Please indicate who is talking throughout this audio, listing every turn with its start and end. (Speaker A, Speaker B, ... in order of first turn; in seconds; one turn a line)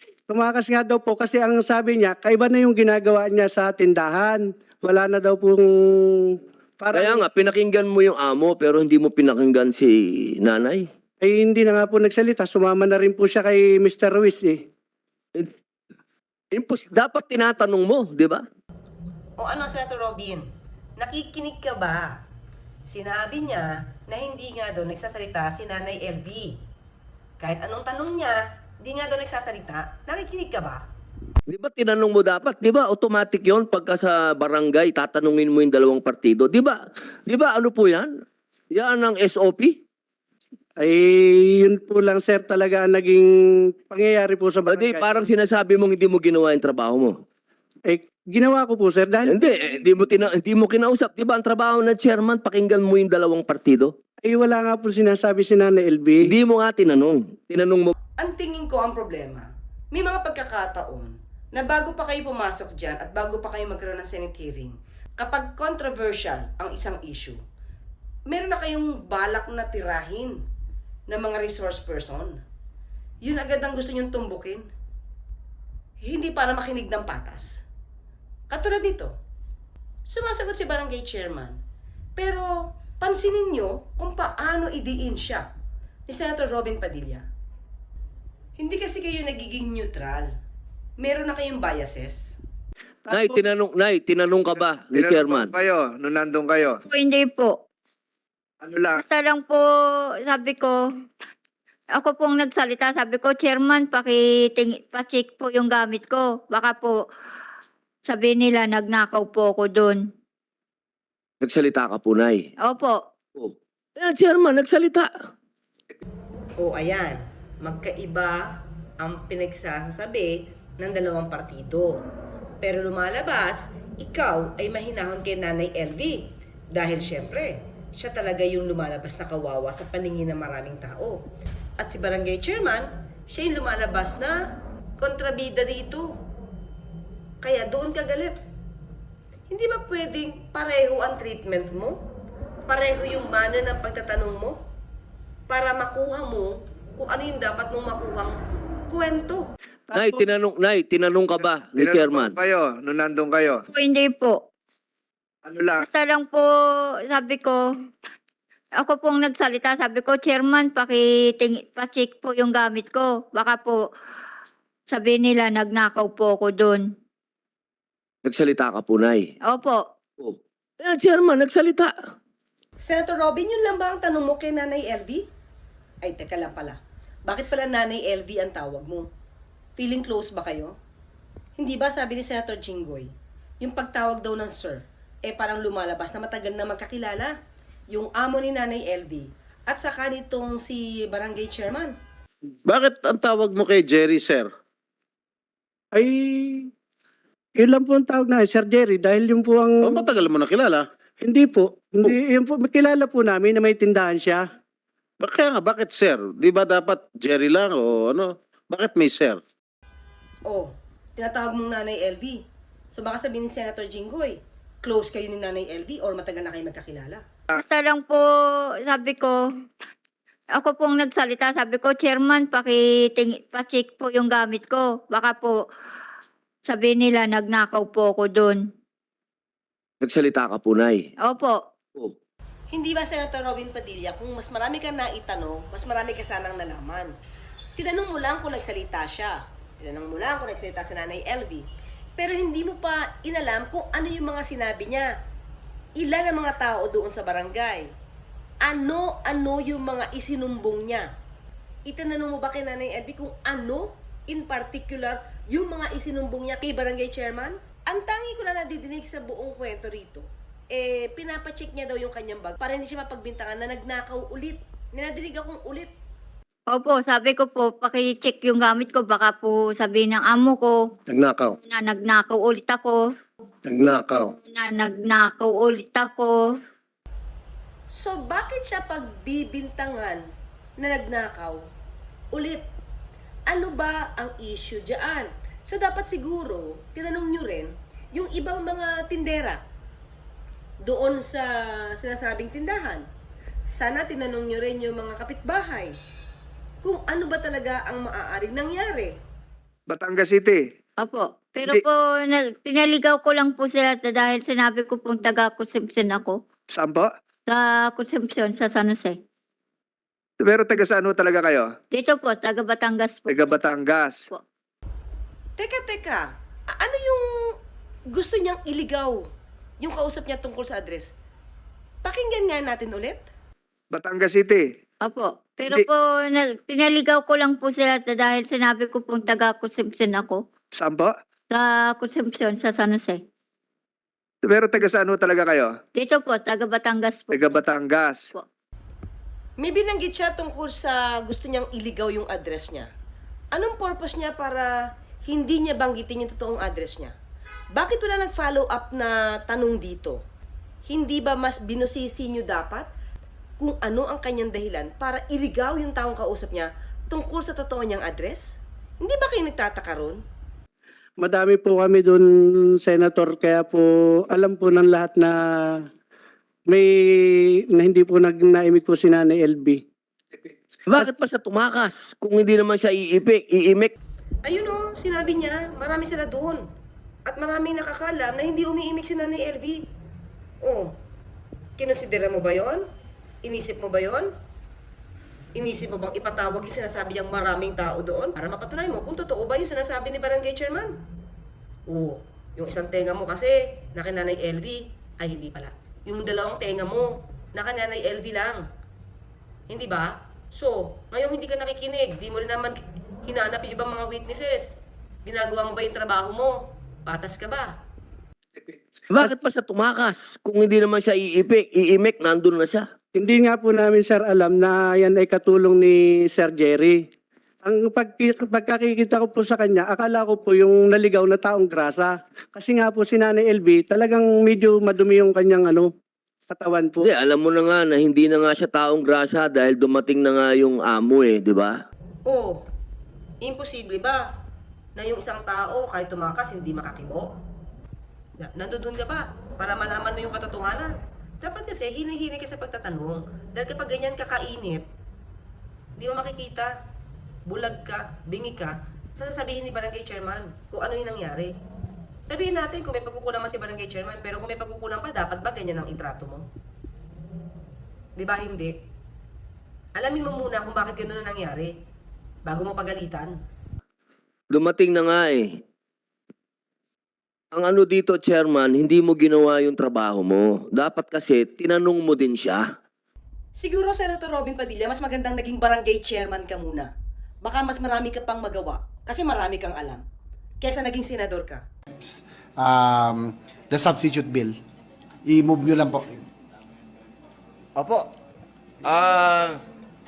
Speaker A: 0.3-7.2
Speaker B: 6.9-10.8
Speaker A: 11.2-14.6
Speaker B: 16.5-18.4
Speaker C: 19.4-20.4
Speaker C: 21.0-22.2
Speaker C: 22.9-26.6
Speaker C: 27.4-30.8
Speaker B: 31.5-38.1
Speaker B: 38.7-39.8
Speaker A: 40.8-45.1
Speaker B: 44.6-47.1
Speaker A: 47.9-49.4
Speaker B: 49.3-53.9
Speaker A: 54.2-56.3
Speaker B: 56.2-57.9
Speaker C: 58.2-67.4
Speaker C: 68.3-70.4
Speaker C: 71.1-72.4
Speaker C: 73.2-74.7
Speaker C: 76.0-77.6
Speaker C: 78.5-79.1
Speaker C: 80.1-81.6
Speaker C: 82.2-85.5
Speaker C: 86.1-87.2
Speaker C: 88.6-90.3
Speaker C: 91.0-92.2
Speaker A: 93.1-93.4
Speaker B: 93.1-95.5
Speaker D: 95.0-96.7
Speaker E: 96.8-97.6
Speaker E: 98.8-99.6
Speaker E: 100.2-100.8
Speaker E: 102.0-107.0
Speaker E: 108.1-110.0
Speaker B: 111.4-112.4
Speaker E: 112.6-113.0
Speaker B: 113.3-115.1
Speaker C: 116.6-122.0
Speaker C: 122.6-126.2
Speaker C: 126.7-131.2
Speaker C: 131.8-134.3
Speaker C: 135.0-136.1
Speaker C: 137.4-138.4
Speaker C: 139.5-141.9
Speaker C: 142.7-144.6
Speaker C: 145.5-148.3
Speaker C: 148.9-149.4
Speaker A: 149.9-150.2
Speaker B: 149.9-152.4
Speaker D: 151.8-153.5
Speaker E: 153.7-154.4
Speaker E: 155.8-156.5
Speaker E: 157.1-157.6
Speaker E: 158.8-163.8
Speaker E: 164.9-166.8
Speaker B: 168.2-169.2
Speaker E: 169.4-169.8
Speaker B: 170.2-171.9
Speaker C: 172.8-175.2
Speaker C: 176.0-179.1
Speaker C: 179.8-180.7
Speaker C: 181.6-187.3
Speaker C: 187.9-191.9
Speaker F: 192.7-194.5
Speaker A: 195.9-196.7
Speaker A: 197.6-199.8
Speaker F: 199.8-200.9
Speaker A: 201.2-204.4
Speaker F: 205.2-209.4
Speaker C: 210.4-212.4
Speaker C: 212.9-217.2
Speaker E: 217.5-218.2
Speaker E: 218.8-219.3
Speaker E: 220.6-225.6
Speaker E: 226.7-228.6
Speaker B: 230.0-231.1
Speaker E: 231.2-231.6
Speaker C: 232.7-237.1
Speaker C: 237.8-241.7
Speaker C: 242.2-245.1
Speaker C: 246.0-247.9
Speaker C: 248.6-251.1
Speaker C: 251.8-265.9
Speaker E: 266.7-270.8
Speaker F: 271.1-271.5
Speaker E: 271.6-273.0
Speaker F: 273.6-274.3
Speaker E: 274.2-276.4
Speaker C: 277.9-280.2
Speaker C: 280.8-281.6
Speaker C: 282.3-282.6
Speaker C: 283.5-289.6
Speaker C: 290.8-293.0
Speaker C: 293.7-295.9
Speaker C: 296.8-299.2
Speaker D: 299.9-300.6
Speaker E: 301.0-306.4
Speaker D: 306.8-307.1
Speaker E: 307.5-309.2
Speaker D: 310.4-311.7
Speaker E: 311.9-313.8
Speaker D: 313.3-314.1
Speaker C: 315.6-317.5
Speaker C: 318.1-319.2
Speaker C: 319.8-321.1
Speaker C: 322.0-323.3
Speaker D: 324.0-324.6
Speaker E: 325.0-330.4
Speaker E: 331.5-333.2
Speaker D: 334.5-335.7
Speaker E: 335.9-337.8
Speaker D: 337.4-338.2
Speaker C: 339.6-342.9
Speaker C: 343.5-344.7
Speaker C: 345.2-347.1
Speaker C: 347.7-350.2
Speaker C: 350.9-352.9
Speaker C: 353.6-360.2
Speaker A: 361.2-362.3
Speaker A: 362.8-365.9
Speaker A: 366.7-369.8
Speaker B: 370.9-373.9
Speaker C: 374.4-376.6
Speaker C: 377.3-379.9
Speaker C: 380.6-380.9
Speaker C: 381.8-382.8
Speaker C: 383.4-384.3
Speaker C: 385.6-390.9
Speaker C: 391.9-398.6
Speaker C: 399.7-407.7
Speaker B: 409.1-412.8
Speaker A: 413.1-417.0
Speaker A: 417.6-425.9
Speaker A: 426.5-427.1
Speaker B: 427.0-431.7
Speaker C: 432.2-432.6
Speaker C: 433.4-434.2
Speaker C: 434.9-437.3
Speaker C: 438.4-444.8
Speaker C: 446.0-446.7
Speaker C: 447.4-451.5
Speaker C: 452.2-456.4
Speaker C: 458.2-458.7
Speaker C: 459.9-461.7
Speaker C: 462.4-463.3
Speaker B: 464.5-465.5
Speaker B: 467.5-472.6
Speaker C: 473.6-476.9
Speaker C: 477.4-480.0
Speaker C: 480.6-481.6
Speaker G: 481.9-484.6
Speaker G: 485.2-486.2
Speaker B: 487.8-488.1
Speaker B: 488.8-489.6